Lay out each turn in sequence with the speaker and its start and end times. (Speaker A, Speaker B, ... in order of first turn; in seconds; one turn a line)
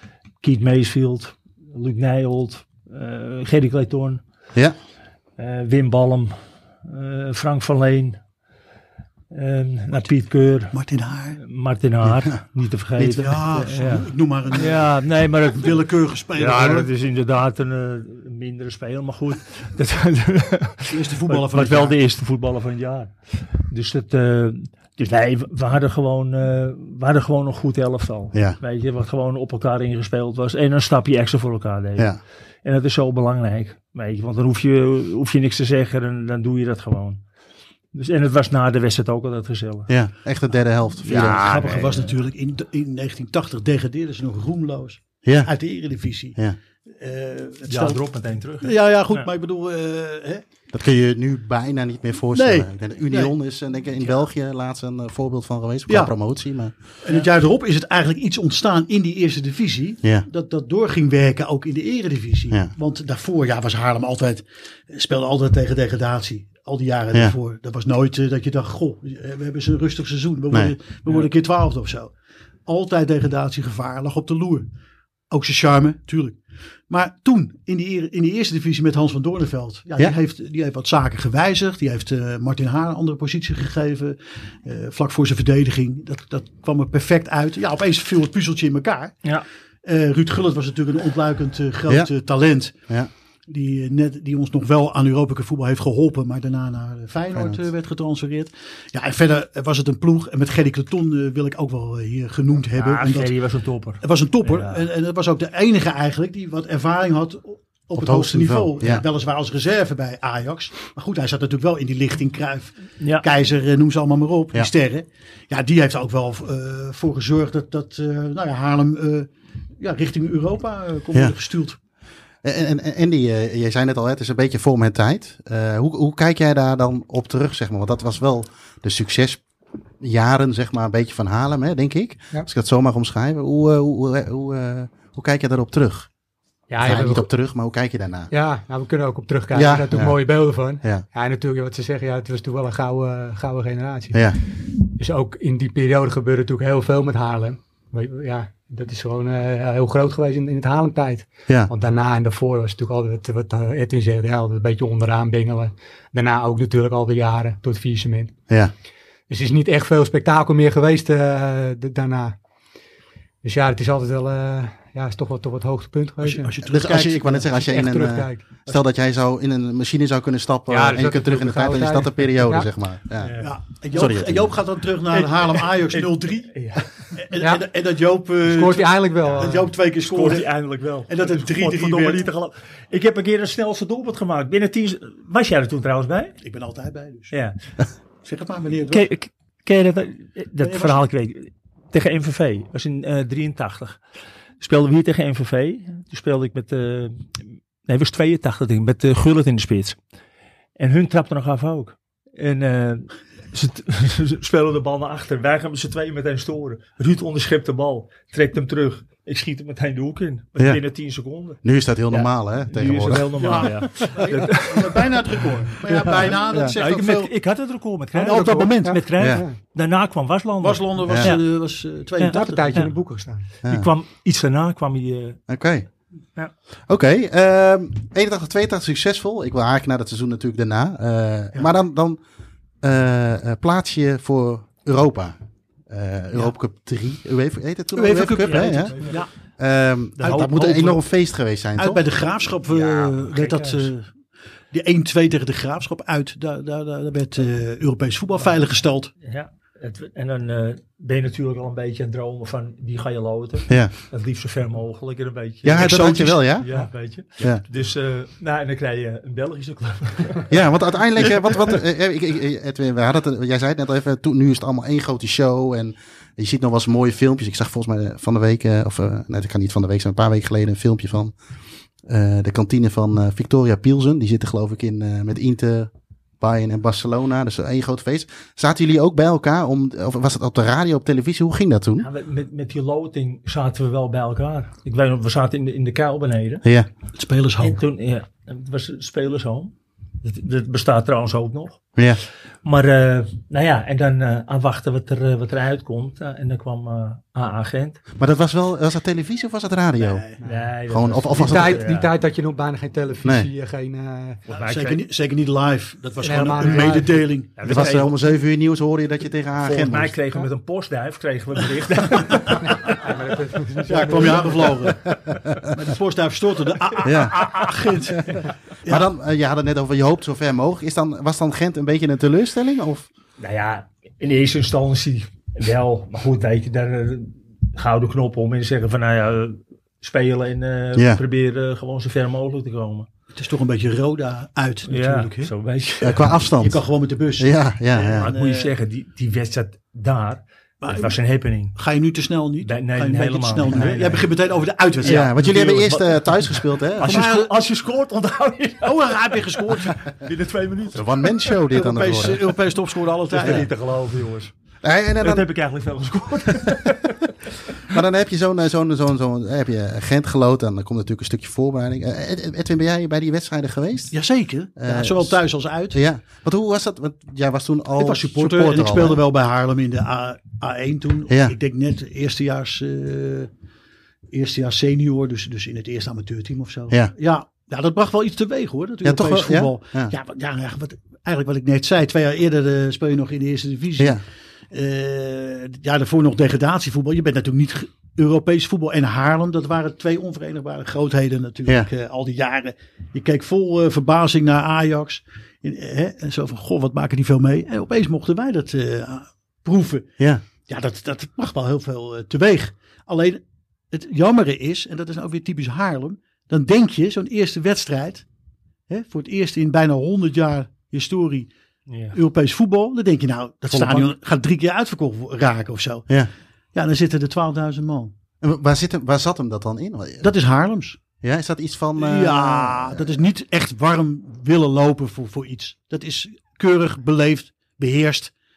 Speaker A: 0.4-4.2
Speaker A: 5.4-6.3
Speaker A: 6.8-8.2
Speaker A: 9.3-10.7
Speaker B: 10.7-11.4
Speaker A: 11.4-15.8
Speaker B: 13.1-14.9
Speaker B: 15.5-16.9
Speaker A: 16.3-32.1
Speaker B: 20.9-22.0
Speaker A: 32.6-37.2
Speaker A: 37.9-39.9
Speaker C: 39.9-41.7
Speaker A: 41.0-42.1
Speaker B: 41.2-48.0
Speaker C: 45.2-45.5
Speaker A: 47.7-49.3
Speaker B: 48.6-50.4
Speaker C: 50.7-56.7
Speaker B: 52.3-53.3
Speaker B: 55.9-56.1
Speaker B: 57.0-72.1
Speaker B: 72.7-74.7
Speaker B: 75.3-89.2
Speaker B: 89.8-92.8
Speaker B: 93.5-103.3
Speaker C: 97.3-97.6
Speaker A: 102.7-104.9
Speaker B: 104.0-121.8
Speaker C: 107.9-109.0
Speaker A: 113.0-113.2
Speaker C: 122.4-129.4
Speaker C: 130.0-136.1
Speaker D: 136.7-137.3
Speaker C: 136.8-138.3
Speaker D: 138.3-158.3
Speaker C: 139.5-140.1
Speaker D: 159.3-162.4
Speaker D: 163.4-166.5
Speaker B: 166.2-167.4
Speaker C: 166.6-173.3
Speaker D: 167.4-168.5
Speaker D: 170.7-172.7
Speaker A: 173.2-173.5
Speaker B: 173.4-176.5
Speaker C: 173.9-174.6
Speaker A: 175.1-176.9
Speaker B: 177.1-180.5
Speaker D: 177.4-177.6
Speaker D: 178.4-179.7
Speaker A: 179.4-186.4
Speaker B: 181.1-182.2
Speaker B: 186.4-187.3
Speaker A: 187.3-187.6
Speaker B: 188.2-189.1
Speaker A: 188.9-194.0
Speaker B: 190.6-191.0
Speaker A: 194.6-197.2
Speaker A: 197.8-200.0
Speaker A: 200.8-221.4
Speaker C: 211.6-213.8
Speaker B: 213.3-217.3
Speaker B: 218.2-219.0
Speaker D: 218.3-219.6
Speaker C: 219.2-219.4
Speaker B: 220.6-222.8
Speaker C: 221.1-221.3
Speaker A: 222.2-222.9
Speaker D: 222.2-223.4
Speaker A: 223.6-225.4
Speaker C: 225.5-225.9
Speaker C: 226.9-232.2
Speaker C: 232.8-235.3
Speaker C: 235.9-238.9
Speaker B: 237.9-239.3
Speaker A: 238.4-239.2
Speaker C: 239.6-242.0
Speaker A: 240.2-241.0
Speaker B: 241.8-244.1
Speaker A: 242.7-243.9
Speaker B: 244.7-249.1
Speaker A: 249.2-260.5
Speaker C: 255.6-256.7
Speaker B: 255.7-256.6
Speaker C: 260.5-271.3
Speaker C: 272.1-282.1
Speaker A: 282.0-286.6
Speaker B: 287.1-287.8
Speaker A: 287.6-291.8
Speaker A: 292.6-298.0
Speaker C: 298.2-300.2
Speaker B: 300.0-300.4
Speaker A: 300.4-302.1
Speaker C: 300.9-301.8
Speaker D: 301.4-304.4
Speaker A: 304.5-305.0
Speaker B: 304.5-307.8
Speaker D: 306.2-307.2
Speaker A: 306.4-308.1
Speaker C: 307.6-310.1
Speaker A: 309.6-313.1
Speaker D: 312.7-314.7
Speaker B: 313.9-315.0
Speaker C: 314.9-315.7
Speaker B: 315.7-319.1
Speaker C: 317.0-317.5
Speaker C: 318.1-323.1
Speaker A: 323.4-333.1
Speaker C: 330.9-331.2
Speaker B: 333.3-335.5
Speaker A: 334.9-336.4
Speaker C: 336.0-336.8
Speaker B: 336.6-338.7
Speaker C: 337.4-338.3
Speaker A: 338.0-341.8
Speaker B: 340.8-341.2
Speaker B: 341.7-345.3
Speaker A: 342.6-344.3
Speaker A: 345.0-351.6
Speaker C: 345.0-347.3
Speaker B: 347.0-347.5
Speaker B: 348.8-350.0
Speaker C: 350.9-352.5
Speaker B: 351.7-353.7
Speaker A: 353.3-354.5
Speaker C: 354.8-355.4
Speaker A: 355.2-358.0
Speaker C: 357.9-364.1
Speaker B: 364.1-366.0
Speaker C: 364.8-365.4
Speaker C: 365.9-369.2
Speaker B: 368.0-373.5
Speaker C: 371.3-371.5
Speaker B: 374.3-400.1
Speaker C: 379.0-380.1
Speaker B: 400.7-408.2
Speaker B: 408.9-411.5
Speaker A: 411.9-412.1
Speaker B: 412.1-416.1
Speaker C: 413.7-414.1
Speaker B: 416.7-418.1
Speaker C: 418.4-420.3
Speaker B: 420.2-421.0
Speaker C: 421.2-423.1
Speaker B: 421.9-428.3